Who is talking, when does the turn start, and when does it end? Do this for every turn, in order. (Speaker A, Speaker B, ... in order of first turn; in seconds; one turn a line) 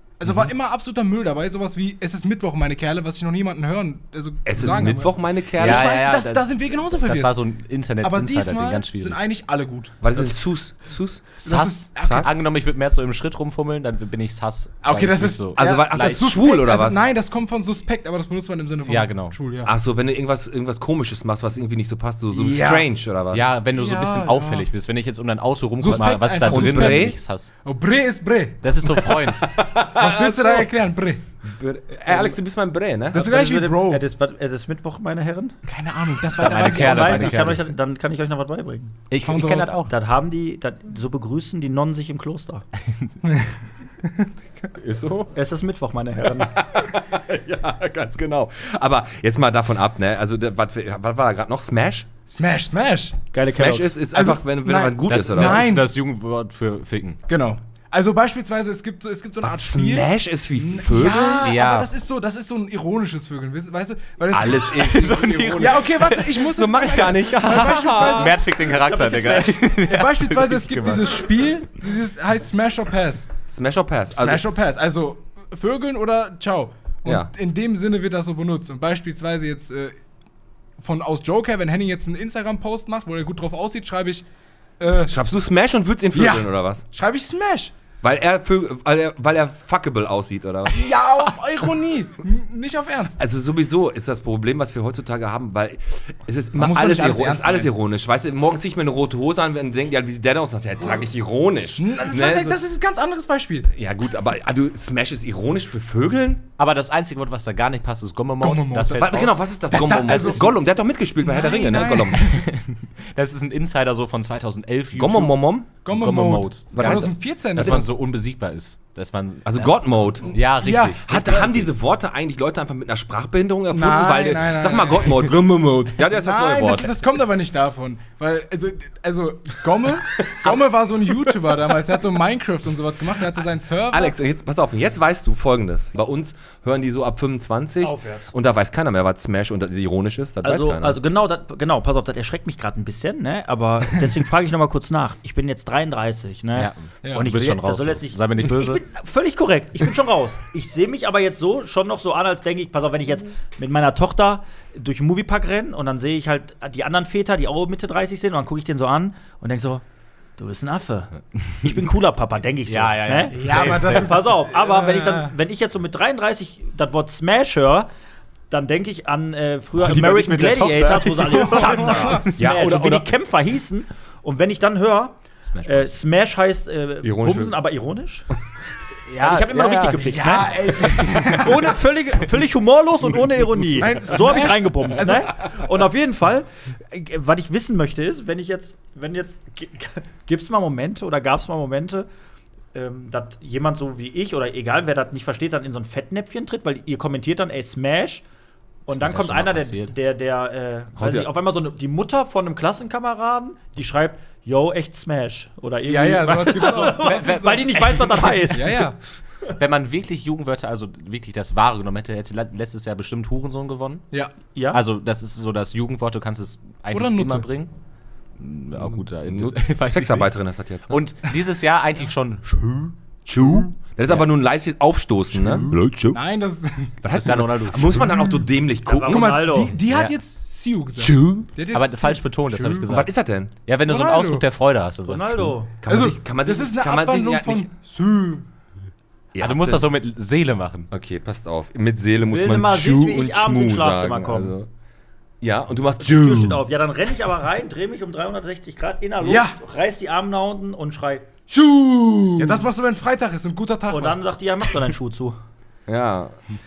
Speaker A: 0.2-7.4
Speaker B: 4.5-6.0
Speaker C: 5.6-9.2
Speaker A: 8.0-10.0
Speaker B: 10.0-11.4
Speaker A: 11.4-12.3
Speaker C: 11.4-16.2
Speaker B: 12.0-12.3
Speaker A: 14.8-19.7
Speaker B: 15.6-17.1
Speaker C: 18.9-19.4
Speaker B: 19.6-23.5
Speaker A: 22.3-22.9
Speaker C: 23.3-27.5
Speaker A: 23.7-24.7
Speaker A: 25.8-27.1
Speaker B: 26.4-27.2
Speaker A: 27.6-31.2
Speaker C: 28.6-29.5
Speaker B: 29.6-30.7
Speaker B: 31.4-33.3
Speaker A: 33.1-34.0
Speaker D: 33.1-35.6
Speaker A: 35.7-37.6
Speaker C: 36.4-37.6
Speaker D: 36.4-39.0
Speaker C: 39.1-39.9
Speaker A: 39.2-39.9
Speaker D: 39.9-42.6
Speaker A: 43.2-44.7
Speaker B: 44.8-45.3
Speaker D: 45.3-46.6
Speaker B: 46.4-52.1
Speaker A: 52.3-53.2
Speaker D: 53.3-54.0
Speaker B: 53.5-55.7
Speaker A: 54.1-55.9
Speaker C: 55.0-57.2
Speaker A: 57.3-65.0
Speaker B: 59.4-61.5
Speaker C: 61.4-61.9
Speaker B: 64.3-68.4
Speaker C: 64.6-66.5
Speaker A: 65.6-68.4
Speaker C: 67.9-71.5
Speaker D: 68.6-69.7
Speaker A: 69.8-73.3
Speaker B: 73.5-74.4
Speaker A: 74.1-80.0
Speaker B: 77.0-77.3
Speaker A: 80.8-84.2
Speaker A: 84.8-85.1
Speaker B: 84.9-86.8
Speaker A: 86.1-87.7
Speaker B: 88.0-91.3
Speaker A: 90.7-93.2
Speaker B: 93.2-102.6
Speaker A: 96.6-97.7
Speaker A: 101.8-103.7
Speaker B: 103.7-106.5
Speaker C: 106.6-110.5
Speaker A: 108.4-109.2
Speaker B: 109.0-112.3
Speaker A: 109.7-110.5
Speaker A: 111.2-112.4
Speaker C: 111.7-119.8
Speaker B: 115.0-115.7
Speaker A: 115.8-117.9
Speaker B: 116.7-117.9
Speaker B: 119.5-120.5
Speaker C: 120.3-121.7
Speaker A: 120.3-121.0
Speaker B: 121.1-127.0
Speaker A: 123.7-125.1
Speaker A: 126.0-134.2
Speaker C: 130.4-130.7
Speaker B: 133.9-141.0
Speaker D: 137.8-138.3
Speaker D: 140.4-159.8
Speaker C: 146.5-148.8
Speaker D: 160.4-167.9
Speaker C: 162.7-164.3
Speaker A: 163.3-165.3
Speaker D: 168.5-178.3
Speaker C: 169.8-172.1
Speaker A: 171.2-172.3
Speaker B: 171.8-173.1
Speaker C: 175.4-175.9
Speaker B: 177.0-177.6
Speaker C: 179.1-181.5
Speaker D: 179.2-192.1
Speaker A: 180.2-181.6
Speaker A: 183.7-185.3
Speaker D: 192.7-198.2
Speaker D: 198.9-208.9
Speaker C: 198.9-199.9
Speaker B: 201.0-201.3
Speaker A: 205.8-207.9
Speaker C: 206.7-208.7
Speaker A: 208.5-209.0
Speaker C: 209.6-214.1
Speaker D: 214.6-214.8
Speaker C: 214.7-217.7
Speaker A: 216.9-217.5
Speaker C: 218.4-220.3
Speaker B: 218.8-221.0
Speaker C: 220.9-222.9
Speaker B: 223.3-226.2
Speaker A: 225.3-226.9
Speaker B: 227.0-229.4
Speaker C: 227.1-228.1
Speaker A: 227.9-228.4
Speaker D: 228.9-229.7
Speaker A: 229.1-232.9
Speaker C: 229.9-230.2
Speaker B: 231.0-231.5
Speaker C: 231.7-233.1
Speaker B: 232.9-233.5
Speaker C: 233.7-235.6
Speaker A: 233.9-234.4
Speaker D: 235.1-235.7
Speaker B: 235.8-237.7
Speaker A: 235.9-238.4
Speaker B: 239.3-239.9
Speaker C: 239.4-240.9
Speaker B: 240.9-244.7
Speaker D: 242.3-244.6
Speaker B: 245.4-246.6
Speaker D: 246.0-251.3
Speaker A: 249.2-249.6
Speaker B: 251.5-252.7
Speaker A: 251.6-254.7
Speaker D: 253.9-255.4
Speaker B: 255.9-256.4